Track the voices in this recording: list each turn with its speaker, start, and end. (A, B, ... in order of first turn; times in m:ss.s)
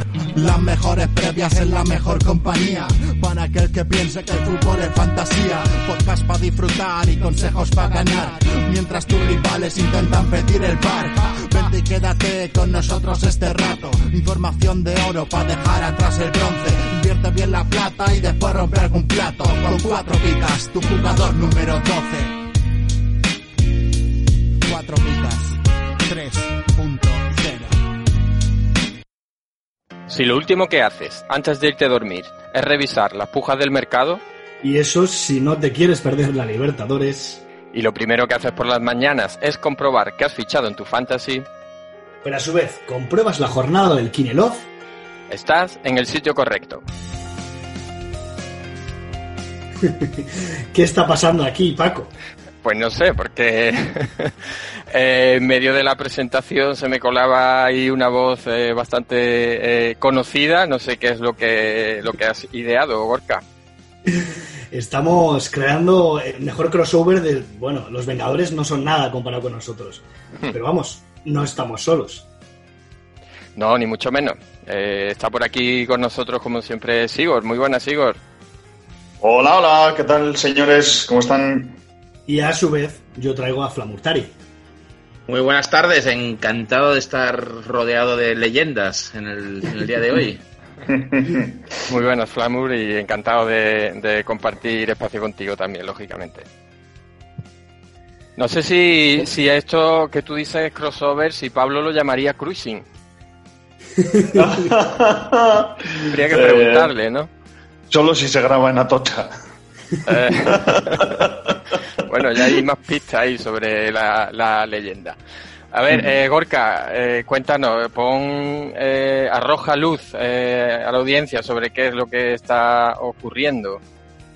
0:00.3-0:22.3 A
0:24.6-0:27.8 A
0:30.1-0:34.2 B
0:34.6-0:37.4 C
0:37.7-0:41.5 B
0:42.2-0:44.7 C
0:45.3-0:46.8 B
0:49.8-0:52.1 C
0:52.6-0:54.4 B
0:54.9-1:03.4 B
1:04.1-1:12.3 C
1:13.6-1:18.2 B
1:19.2-1:21.8 D
1:22.3-1:24.3 C
1:25.3-1:30.4 E
1:30.9-1:31.6 D
1:31.9-1:36.4 B
1:38.4-1:42.8 B
1:44.1-1:44.4 C
1:44.3-1:46.9 D
1:46.0-1:47.3 B
1:47.9-1:49.3 D
1:50.0-1:51.1 B
1:50.3-1:51.8 D
1:52.0-1:55.2 B
1:55.7-2:03.8 B